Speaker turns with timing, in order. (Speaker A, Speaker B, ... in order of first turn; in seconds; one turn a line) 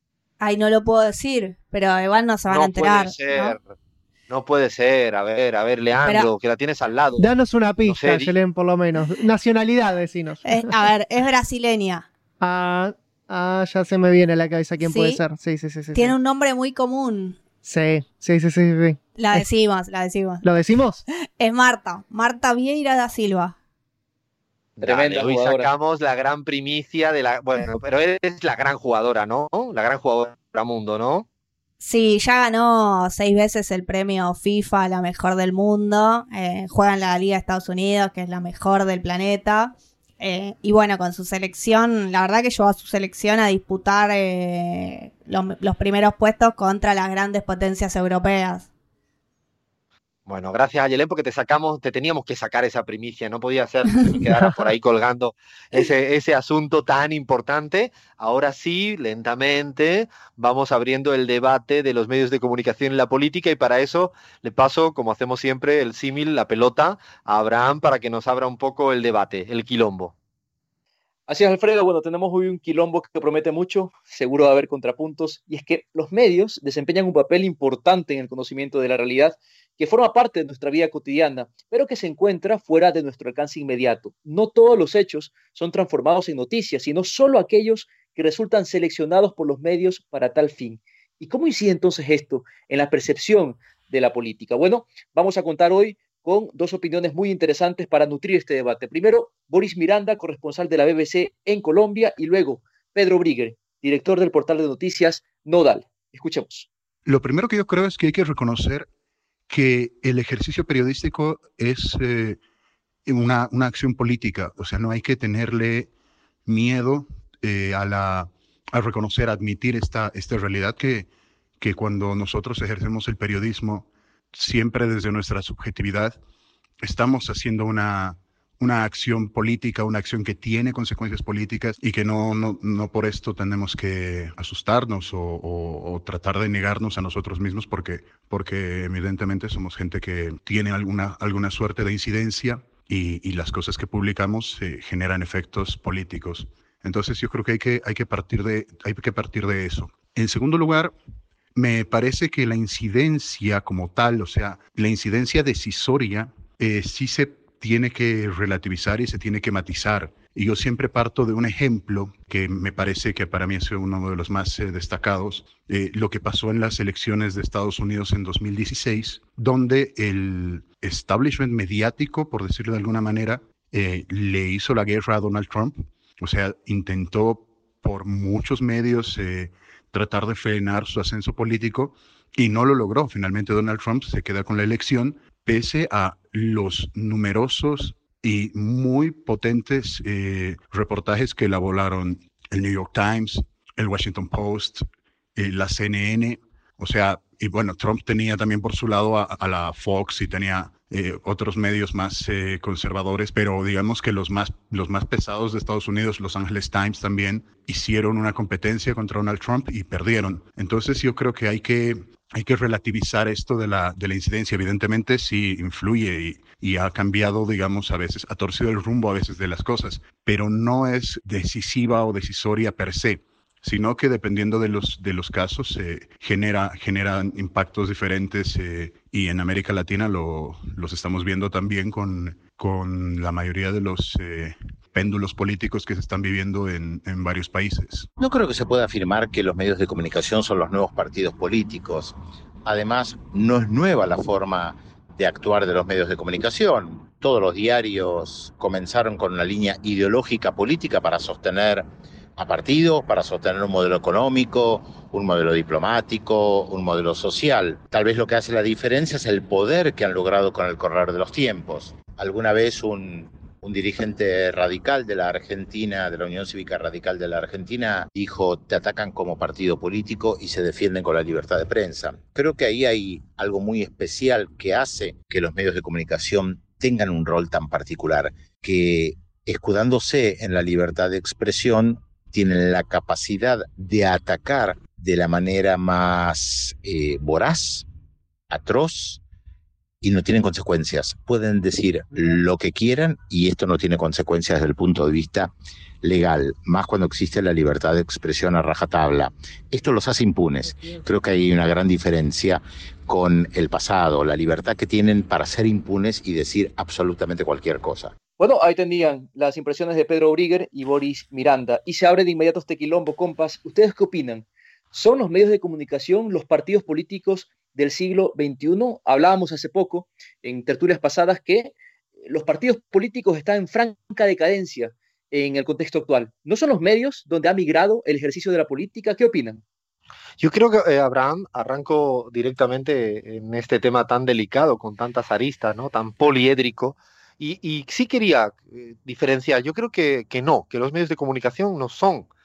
Speaker A: 0.4-3.5
Speaker B: 2.5-3.6
Speaker B: 4.3-8.3
Speaker A: 6.0-6.3
Speaker C: 7.2-10.8
Speaker A: 10.4-12.0
Speaker C: 12.4-16.1
Speaker A: 14.8-15.2
Speaker A: 15.9-17.4
Speaker C: 17.6-19.4
Speaker A: 19.1-20.8
Speaker C: 20.4-21.0
Speaker A: 21.4-23.5
Speaker B: 24.8-31.2
Speaker D: 24.8-25.7
Speaker A: 31.8-48.6
Speaker B: 50.2-70.1
Speaker D: 71.3-106.7
Speaker E: 107.0-108.9
Speaker E: 109.5-112.4
Speaker E: 113.0-115.9
Speaker E: 116.5-126.2
Speaker E: 126.8-150.9
Speaker E: 151.5-194.8
Speaker E: 195.3-238.1
Speaker F: 238.2-251.8
Speaker F: 252.4-287.9
Speaker F: 288.5-289.2
Speaker F: 290.0-308.1
Speaker D: 308.4-321.7
Speaker D: 322.3-329.6
Speaker B: 330.4-342.3